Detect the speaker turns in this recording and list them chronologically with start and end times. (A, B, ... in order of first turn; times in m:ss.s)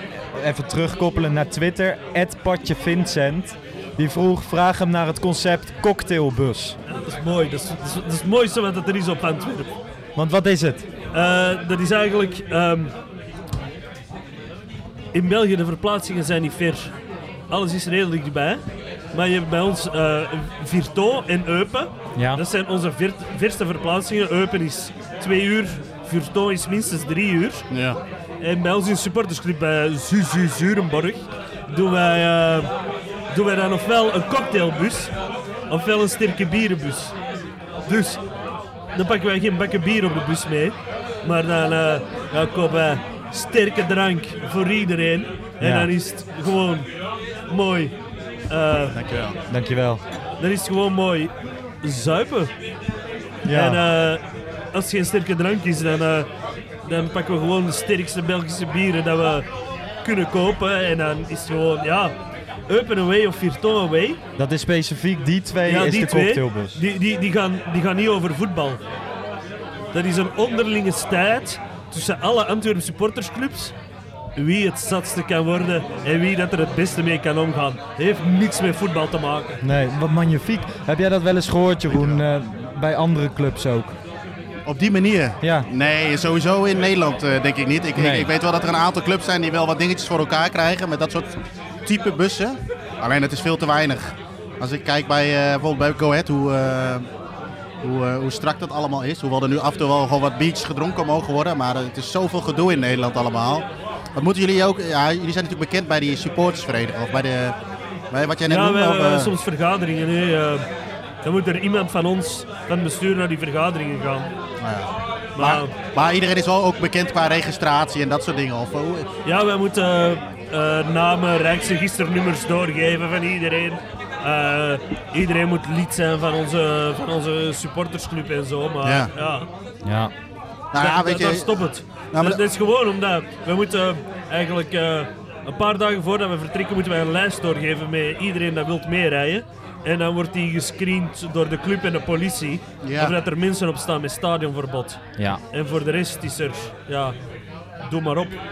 0:00.3-0:06.8 A
0:06.9-0:09.7 B
0:10.2-0:10.8 A
0:11.1-0:12.9 B
0:15.1-0:16.9 B
0:17.5-0:18.6 B
0:19.1-0:27.6 B
0:22.2-0:22.4 A
0:27.7-0:28.0 C
0:28.4-0:32.7 B
0:33.3-0:35.1 B
0:35.7-0:37.2 B
0:37.8-0:38.2 B
0:38.9-0:46.9 B
0:45.6-0:45.9 A
0:47.5-0:47.9 B
0:48.5-0:49.0 B
0:48.9-0:49.4 C
0:49.5-0:50.0 A
0:50.4-0:52.5 B
0:53.4-0:53.8 A
0:53.5-0:54.2 B
0:54.7-0:56.3 B
0:56.8-0:59.5 B
1:00.0-1:02.1 B
1:02.7-1:04.2 B
1:04.4-1:06.8 A
1:05.6-1:08.8 B
1:09.9-1:13.7 B
1:14.4-1:19.6 B
1:19.6-1:24.0 A
1:21.9-1:22.2 C
1:24.6-1:37.1 C
1:25.4-1:25.7 A
1:28.0-1:28.3 A
1:37.8-1:47.6 C
1:48.1-1:49.3 C
1:48.5-1:50.6 B
1:51.2-1:54.3 B
1:54.6-1:59.1 C
1:55.4-1:55.7 B
1:59.2-2:09.5 B
2:08.8-2:09.1 C
2:09.8-2:10.1 A
2:10.7-2:11.5 C
2:10.8-2:25.0 B
2:12.1-2:12.4 C
2:22.8-2:23.1 C
2:25.5-2:27.2 B
2:27.8-2:28.4 B